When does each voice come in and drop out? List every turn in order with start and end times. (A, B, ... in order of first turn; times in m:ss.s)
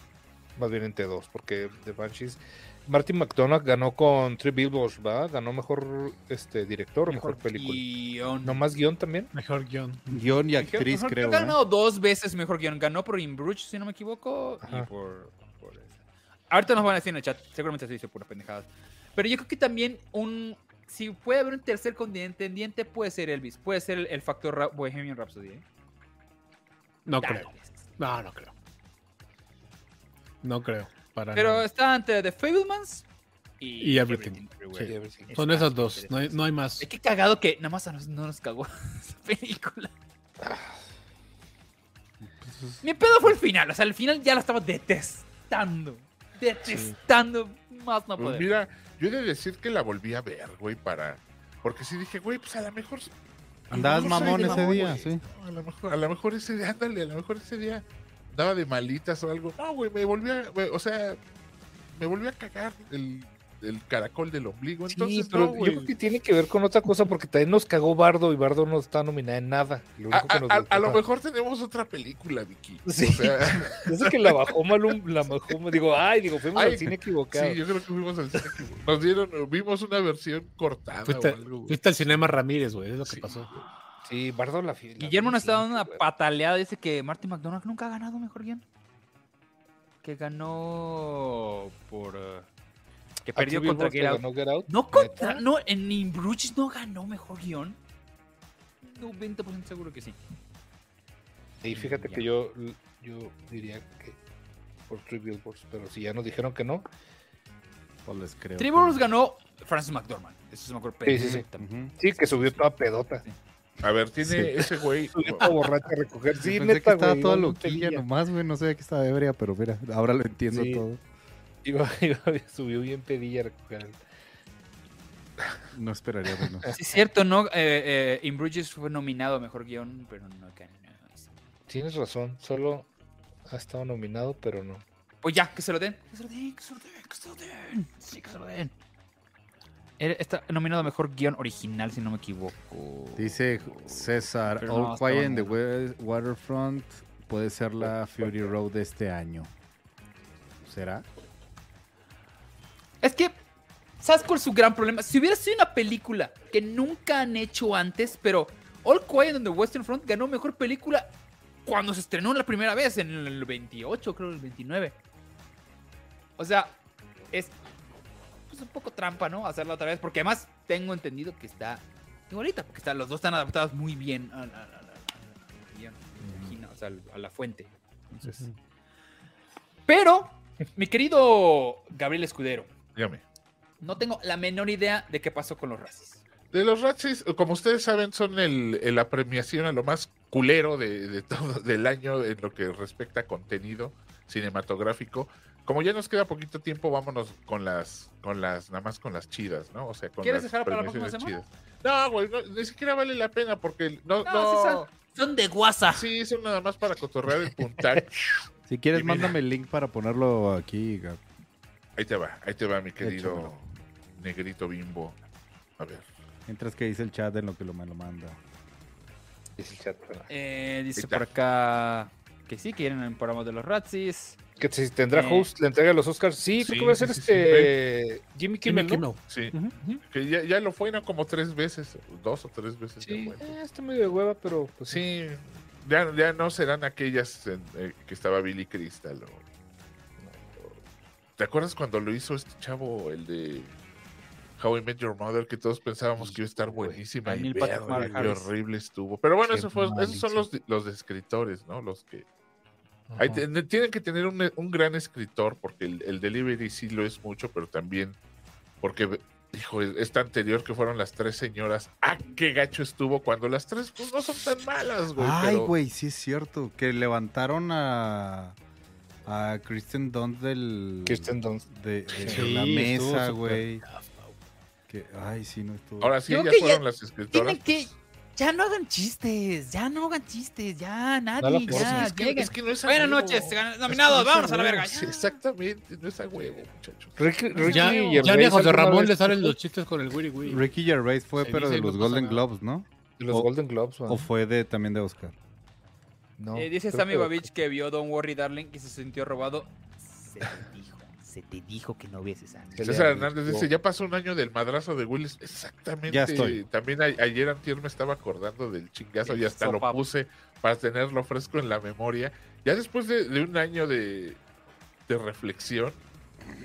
0:00.6-0:07.8 A
0:07.1-0:08.6 B
0:08.4-0:09.3 A
0:09.3-0:10.2 C
0:10.1-0:11.6 D
0:10.6-0:16.0 B
0:14.6-0:14.9 A
0:16.5-0:25.6 B
0:27.0-0:28.5 C
0:27.2-0:27.8 B
0:30.4-0:31.6 C
0:31.3-0:33.0 B
0:33.6-0:39.9 B
0:33.8-0:36.9 C
0:34.9-0:35.3 A
0:40.4-0:40.7 A
0:42.4-0:42.8 D
0:42.8-0:48.5 B
0:48.2-0:53.1 E
0:53.7-1:01.2 E
0:53.7-0:55.2 D
0:53.7-0:55.0 B
1:01.9-1:05.9 E
1:04.9-1:11.0 A
1:10.1-1:14.4 E
1:12.8-1:17.6 A
1:16.5-1:21.8 E
1:21.0-1:23.6 C
1:23.1-1:23.4 E
1:24.1-1:26.0 A
1:25.0-1:28.6 B
1:30.0-1:32.5 B
1:33.2-1:37.8 B
1:33.4-1:35.4 A
1:38.8-1:40.2 B
1:41.6-1:44.2 A
1:41.7-1:42.2 B
1:44.9-1:46.8 A
1:48.0-1:49.0 D
1:48.6-1:51.7 B
1:51.0-1:51.4 A
1:51.2-1:51.9 D
1:52.0-1:53.2 A
1:53.8-1:55.6 E
1:54.2-1:58.0 A
1:56.4-2:01.0 D
2:00.5-2:00.8 A
2:01.6-2:04.0 A
2:05.7-2:06.7 D
2:06.7-2:11.3 B
2:11.7-2:12.9 A
2:13.5-2:14.8 A
2:15.2-2:18.7 B
2:20.0-2:25.6 B
2:23.2-2:29.5 D
2:27.8-2:28.5 A
2:30.6-2:31.0 D
2:33.0-2:33.4 B
2:34.0-2:41.1 B
2:41.6-2:44.9 B
2:46.4-2:46.7 B
2:48.5-2:57.7 B
2:56.2-2:56.6 D
2:59.9-3:02.7 B
3:03.0-3:03.2 E
3:03.8-3:06.2 B
3:06.5-3:24.9 E
3:20.2-3:21.4 B
3:24.2-3:26.1 B
3:25.9-3:28.2 E
3:28.7-3:31.2 D
3:28.9-3:29.3 E
3:32.0-3:33.6 E
3:33.0-3:33.6 D
3:34.2-3:35.2 E
3:35.8-3:36.0 E
3:36.5-3:38.4 D
3:39.6-3:40.3 A
3:40.3-3:44.4 B
3:41.0-3:41.2 E
3:44.6-3:49.0 A
3:45.1-3:45.5 B
3:46.6-3:47.7 E
3:48.6-3:50.0 C
3:49.3-3:53.5 E
3:53.0-3:55.0 A
3:54.9-3:59.4 E
4:00.2-4:00.6 A
4:01.4-4:03.7 E
4:04.6-4:12.2 E
4:06.2-4:07.0 A
4:07.2-4:08.5 B
4:07.9-4:08.2 A
4:09.4-4:10.5 A
4:13.1-4:13.4 A
4:13.2-4:18.2 E
4:18.8-4:25.7 E
4:25.1-4:28.6 D
4:29.2-4:33.8 D
4:31.0-4:31.6 A
4:32.1-4:32.5 A
4:32.2-4:34.3 C
4:34.9-4:36.1 D
4:36.0-4:37.9 E
4:36.3-4:45.4 B
4:41.4-4:42.1 A
4:41.7-4:47.2 E
4:47.2-4:49.5 A
4:47.6-4:48.2 B
4:47.6-4:50.6 C
4:50.5-4:53.5 D
4:51.4-4:52.4 C
4:53.2-4:54.3 A
4:54.1-4:55.3 D
4:56.4-4:57.4 A
4:56.5-5:02.8 B
5:02.7-5:03.7 A
5:02.8-5:14.4 E
5:06.1-5:06.6 D
5:09.2-5:10.0 B
5:15.1-5:16.0 E